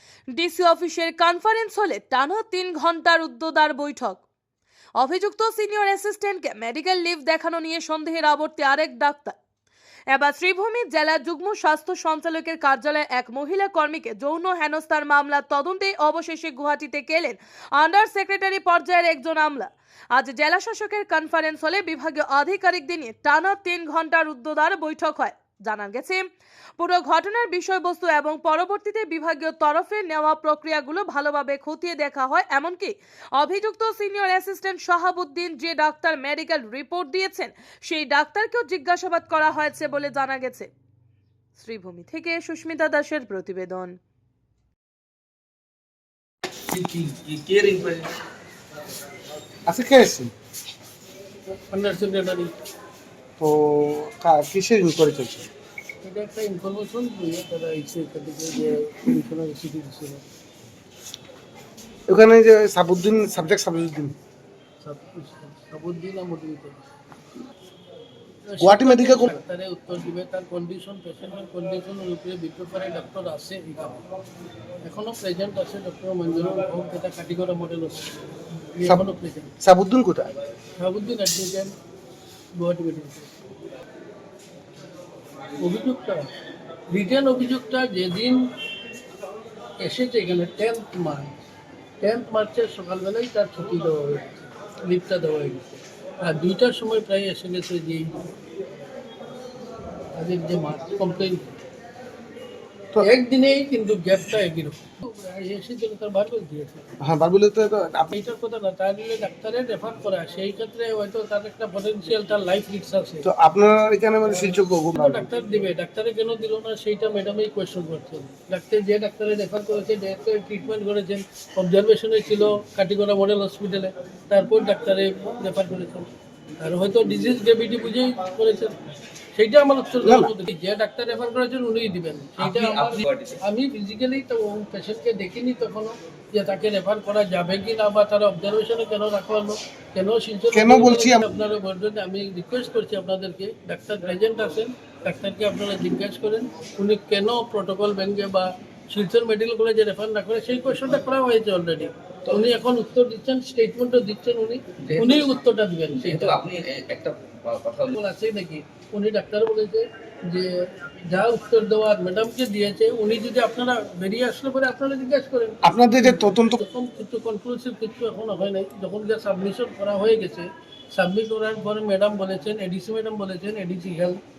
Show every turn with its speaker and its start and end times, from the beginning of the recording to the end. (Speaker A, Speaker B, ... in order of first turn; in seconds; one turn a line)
Speaker A: 0.3-4.2
Speaker A: 5.0-9.4
Speaker A: 10.1-26.2
Speaker A: 26.8-40.7
Speaker A: 41.6-44.0
Speaker B: 46.7-48.1
Speaker C: 49.7-50.3
Speaker D: 51.7-52.5
Speaker C: 53.4-55.5
Speaker D: 56.0-60.2
Speaker C: 62.1-64.2
Speaker D: 64.8-66.8
Speaker D: 68.5-74.0
Speaker C: 68.6-69.4
Speaker D: 74.8-78.1
Speaker D: 78.8-79.5
Speaker C: 79.6-80.3
Speaker D: 80.8-81.7
Speaker D: 82.6-83.3
Speaker D: 85.6-86.3
Speaker D: 86.9-88.4
Speaker D: 89.8-91.3
Speaker D: 92.0-95.6
Speaker D: 96.2-98.2
Speaker D: 100.2-101.5
Speaker D: 103.0-106.8
Speaker C: 107.0-108.1
Speaker D: 108.1-113.2
Speaker C: 113.2-115.3
Speaker D: 114.3-126.1
Speaker D: 126.6-128.8
Speaker D: 129.3-156.4
Speaker C: 130.0-130.3
Speaker B: 132.4-133.4
Speaker C: 140.5-141.3
Speaker B: 154.8-155.3
Speaker B: 156.0-157.9
Speaker D: 157.9-174.2
Speaker C: 165.6-166.6